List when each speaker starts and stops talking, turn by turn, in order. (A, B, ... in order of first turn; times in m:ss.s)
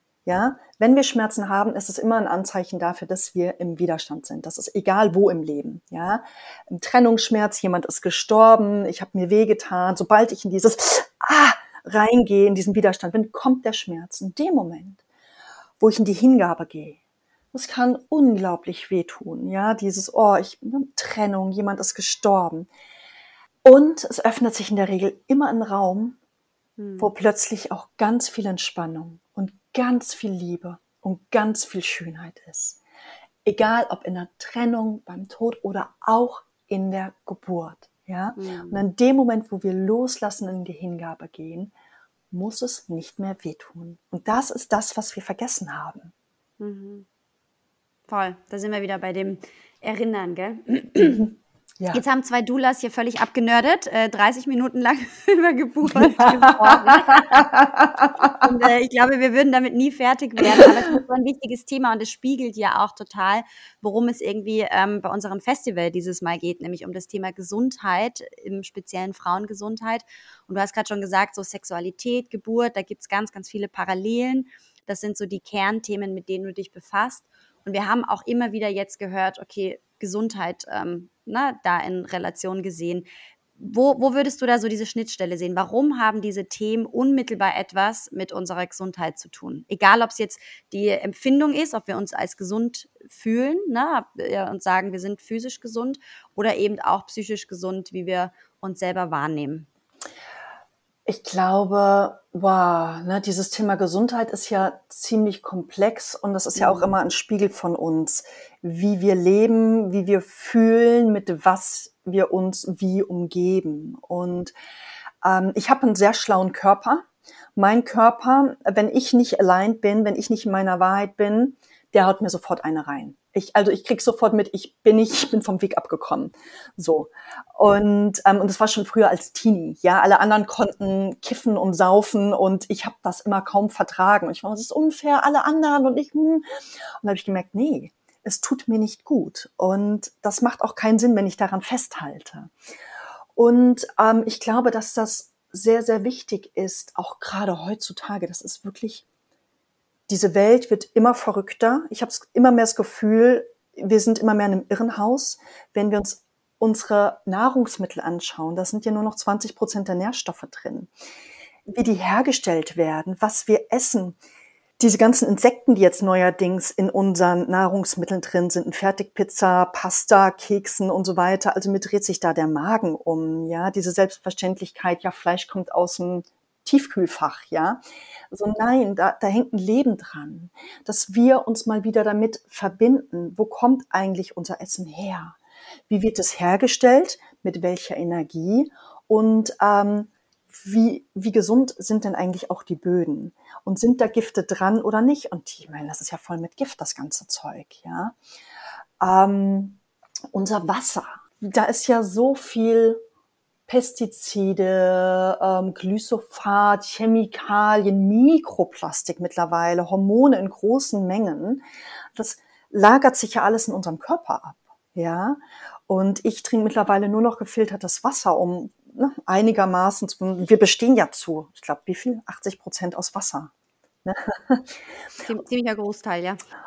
0:00.2-0:15.0 A
0:15.8-0:17.0 A
0:17.5-0:22.7 A
0:23.6-0:26.2 A
0:26.8-0:27.1 B
0:27.0-0:32.8 A
0:33.4-0:41.7 A
0:38.4-0:38.8 B
0:42.3-0:46.1 A
0:46.6-0:47.0 B
0:48.1-0:51.3 B
0:51.9-0:57.4 B
0:55.9-0:58.5 A
0:58.2-1:23.1 B
1:23.6-1:39.7 B
1:41.0-1:54.5 A
1:46.6-1:46.9 B
1:55.2-2:16.4 A
2:17.0-2:22.5 A
2:23.4-2:29.0 A
2:30.1-2:40.9 A
2:41.7-2:44.2 A
2:44.8-3:05.4 A
3:05.9-3:18.2 A
3:19.0-3:19.8 A
3:20.3-3:23.0 A
3:23.7-3:31.6 A
3:32.1-3:43.5 A
3:44.0-3:44.7 A
3:45.2-3:46.4 B